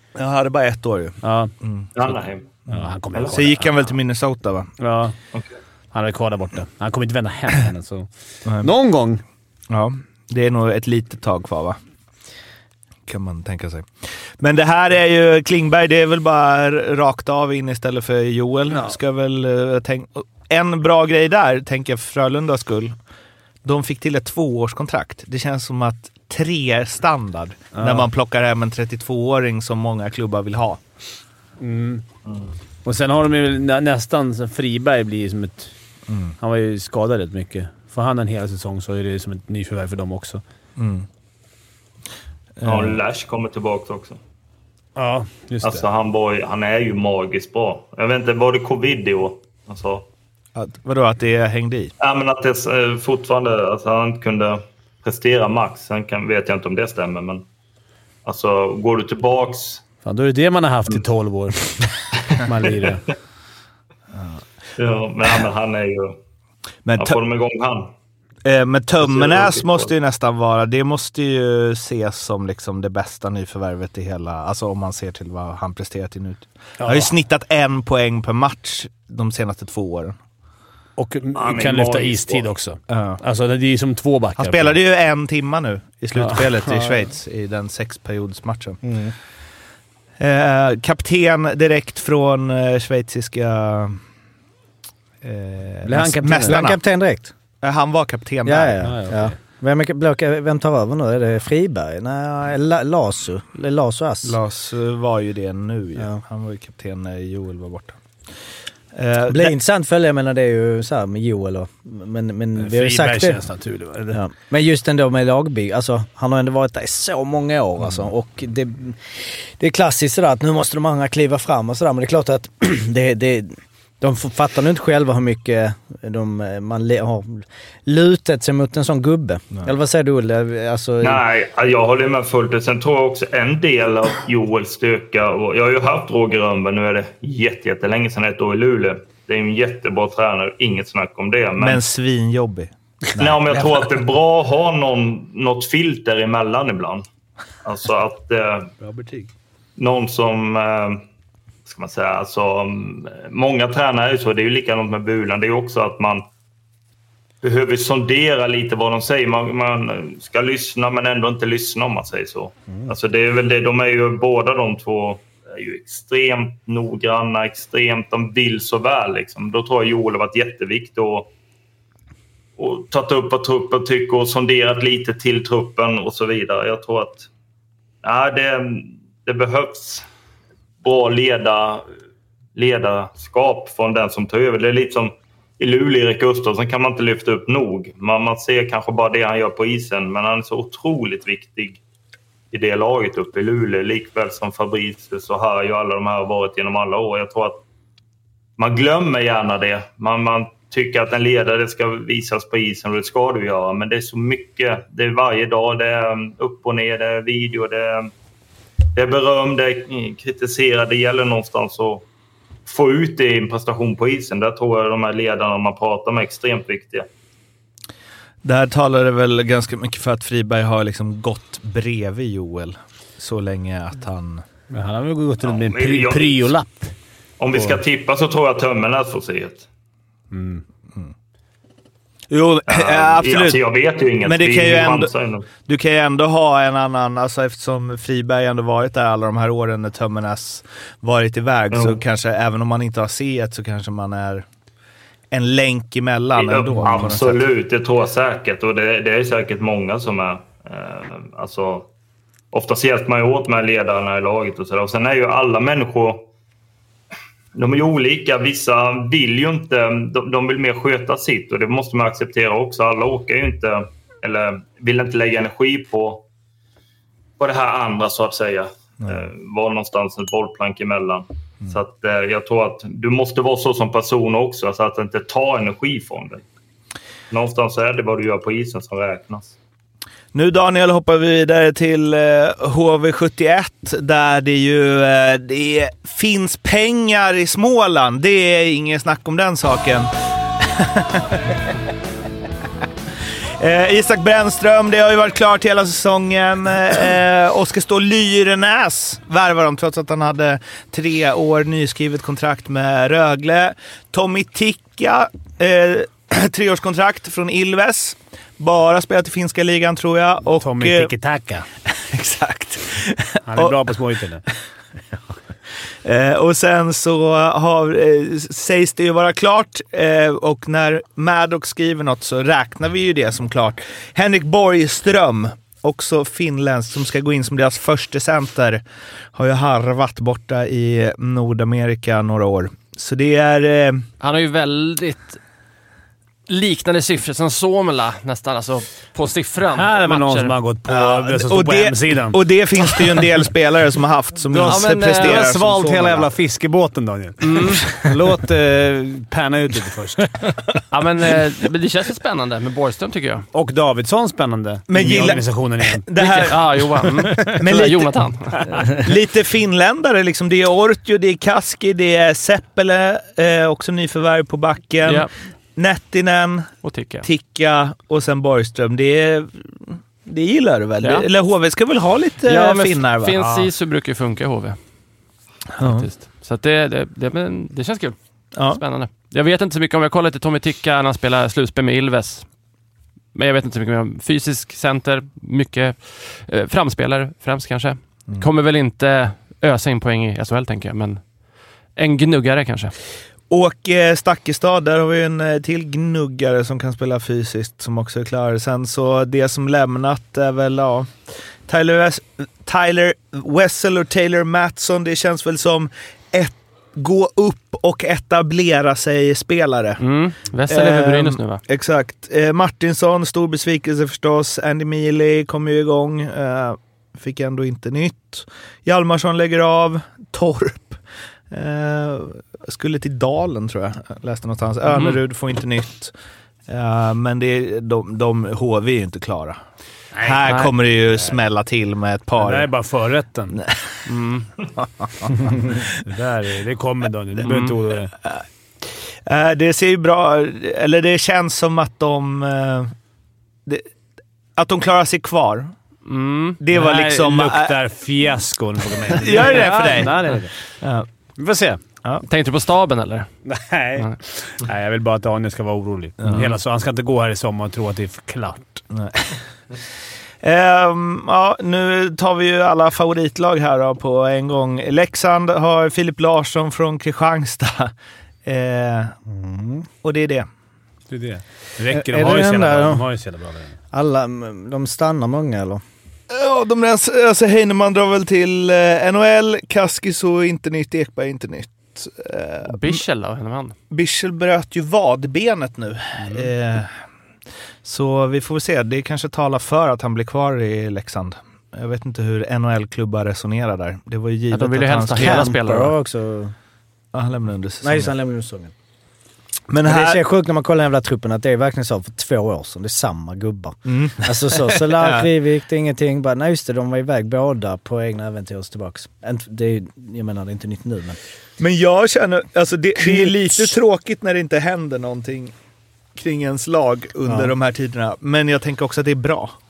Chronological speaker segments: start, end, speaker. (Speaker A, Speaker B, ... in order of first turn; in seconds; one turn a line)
Speaker A: 0.2-1.9
Speaker B: 1.2-1.5
Speaker C: 2.0-2.5
Speaker B: 2.7-3.7
Speaker A: 2.7-4.7
Speaker B: 4.8-5.2
Speaker B: 5.9-8.1
Speaker B: 8.6-9.2
Speaker A: 9.7-11.8
Speaker A: 13.1-22.9
Speaker A: 23.6-30.8
Speaker B: 27.7-28.1
Speaker B: 31.6-32.0
Speaker B: 32.9-35.7
Speaker B: 36.4-40.4
Speaker A: 40.8-41.1
Speaker A: 42.6-43.0
Speaker C: 42.6-44.2
Speaker B: 45.0-45.9
Speaker C: 45.6-50.1
Speaker A: 50.6-51.9
Speaker C: 52.0-57.5
Speaker C: 58.2-59.8
Speaker B: 60.0-63.1
Speaker A: 64.1-64.4
Speaker C: 64.8-66.2
Speaker A: 66.9-67.2
Speaker C: 67.0-67.9
Speaker A: 68.5-80.2
Speaker C: 69.0-69.9
Speaker B: 76.8-77.1
Speaker B: 81.0-84.8
Speaker C: 81.3-82.5
Speaker A: 82.9-83.2
Speaker A: 84.4-88.8
Speaker B: 86.2-87.0
Speaker D: 88.8-89.1
Speaker A: 90.2-94.0
Speaker A: 95.2-96.8
Speaker B: 95.8-96.6
Speaker D: 96.4-97.3
Speaker A: 97.6-98.8
Speaker D: 98.4-104.4
Speaker B: 98.8-99.4
Speaker A: 104.2-108.0
Speaker A: 108.9-109.5
Speaker D: 109.3-113.4
Speaker B: 112.6-114.2
Speaker D: 114.1-131.2
Speaker C: 131.0-141.8
Speaker A: 141.6-143.9
Speaker C: 143.2-147.1
Speaker C: 147.6-148.7
Speaker A: 148.8-149.3
Speaker C: 149.8-151.0
Speaker C: 151.7-156.2
Speaker C: 157.4-171.3
Speaker C: 172.6-177.3
Speaker C: 178.0-180.1
Speaker C: 180.8-181.9
Speaker C: 182.6-191.8
Speaker C: 192.5-197.6
Speaker C: 198.6-208.1
Speaker C: 208.9-212.1
Speaker C: 212.7-217.1
Speaker A: 218.4-224.4
Speaker B: 224.7-226.9
Speaker C: 225.4-226.5
Speaker C: 227.4-229.7
Speaker B: 227.5-227.8
Speaker B: 230.3-230.6
Speaker A: 232.3-233.6
Speaker C: 232.7-235.5
Speaker A: 234.2-235.1
Speaker A: 235.7-244.4
Speaker C: 241.7-242.0
Speaker A: 245.3-247.4
Speaker C: 246.3-251.9
Speaker C: 252.5-256.3
Speaker C: 257.6-266.2
Speaker C: 267.4-276.4
Speaker C: 277.3-279.6
Speaker A: 280.3-291.6
Speaker A: 293.6-311.1
Speaker B: 310.6-311.7
Speaker A: 311.9-313.9
Speaker B: 313.5-314.4
Speaker A: 316.0-328.8
Speaker A: 329.4-334.1
Speaker E: 334.2-335.4
Speaker E: 336.5-340.6
Speaker B: 339.7-342.4
Speaker A: 340.9-346.3
Speaker B: 344.5-350.4
Speaker E: 344.6-345.6
Speaker E: 347.4-347.9
Speaker E: 350.9-353.4
Speaker B: 353.5-356.1
Speaker A: 354.9-373.4
Speaker E: 356.1-359.0
Speaker E: 365.0-365.3
Speaker E: 366.8-367.3
Speaker E: 371.0-371.3
Speaker E: 372.5-374.8
Speaker B: 373.4-373.7
Speaker A: 375.8-376.1
Speaker E: 375.8-378.2
Speaker A: 378.6-378.8
Speaker E: 378.7-382.5
Speaker E: 383.3-391.2
Speaker E: 392.0-392.9
Speaker A: 393.5-401.1
Speaker A: 401.7-410.0
Speaker E: 410.0-411.6
Speaker A: 410.7-421.0
Speaker A: 421.5-426.1
Speaker A: 426.7-429.6
Speaker B: 430.1-430.7
Speaker A: 430.2-432.7
Speaker B: 432.4-433.6
Speaker A: 433.5-434.0
Speaker E: 434.1-434.4
Speaker A: 434.8-435.9
Speaker B: 435.9-438.1
Speaker A: 438.2-438.4
Speaker A: 439.3-442.9
Speaker A: 444.6-445.7
Speaker E: 446.1-446.6
Speaker A: 446.6-447.8
Speaker B: 446.7-450.5
Speaker A: 449.1-451.1
Speaker B: 451.4-451.8
Speaker E: 452.2-453.3
Speaker B: 453.5-458.8
Speaker A: 456.2-456.5
Speaker A: 458.9-459.4
Speaker A: 460.4-467.9
Speaker A: 468.4-469.2
Speaker D: 469.3-469.9
Speaker A: 470.0-470.5
Speaker B: 471.1-473.8
Speaker D: 471.9-473.1
Speaker D: 473.9-475.8
Speaker A: 476.3-483.0
Speaker E: 482.7-483.8
Speaker A: 483.9-486.9
Speaker B: 486.2-486.5
Speaker A: 487.8-495.5
Speaker E: 494.5-495.9
Speaker D: 495.2-496.5
Speaker A: 497.1-498.1
Speaker D: 497.8-498.7
Speaker A: 499.7-500.2
Speaker D: 499.8-511.2
Speaker A: 503.9-505.3
Speaker A: 511.6-515.5
Speaker D: 513.0-513.4
Speaker A: 516.2-519.5
Speaker D: 517.3-517.5